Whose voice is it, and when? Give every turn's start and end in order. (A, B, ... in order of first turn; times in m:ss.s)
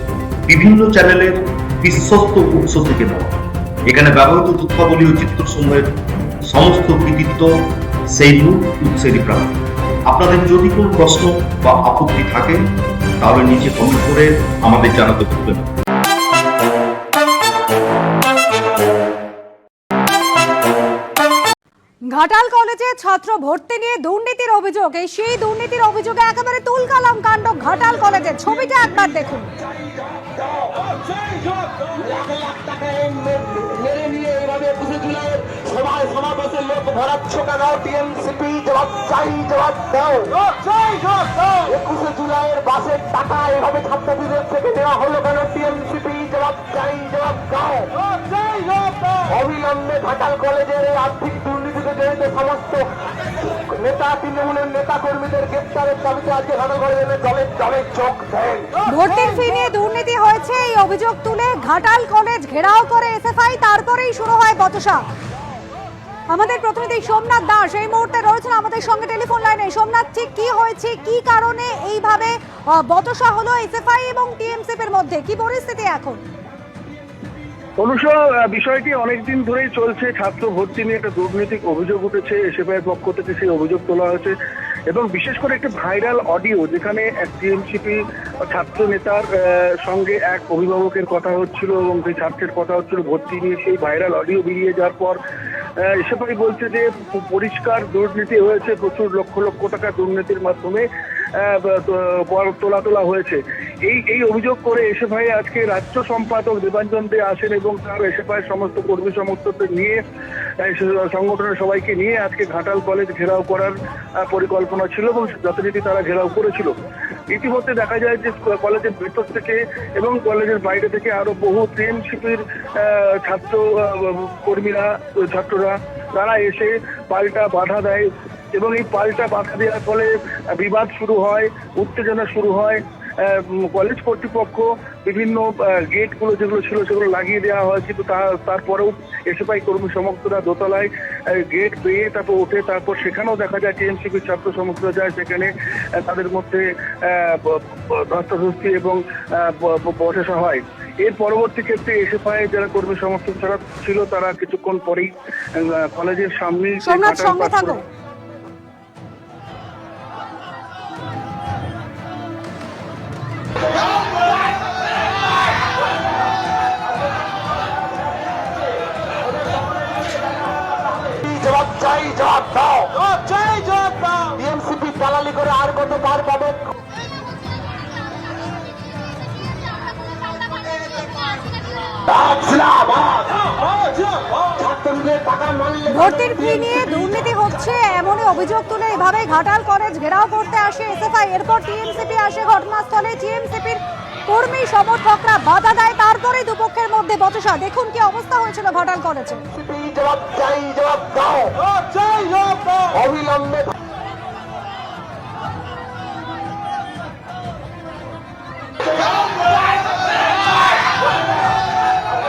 0:00.5-0:05.9 A
0:06.5-0:07.5 A
0:08.1-0:12.6 A
0:13.2-0:15.7 A
0:22.1-0:29.5 B
0:30.1-0:52.9 C
0:53.5-0:58.8 C
0:58.9-1:05.0 B
1:06.3-1:16.2 B
1:17.8-1:24.4 D
1:24.9-1:35.2 D
1:35.8-1:50.0 D
1:50.6-1:56.8 D
1:57.3-2:37.8 D
2:36.8-2:37.8 B
2:51.0-2:56.7 C
3:02.1-3:06.8 C
3:05.9-3:19.4 B
3:19.5-3:23.7 C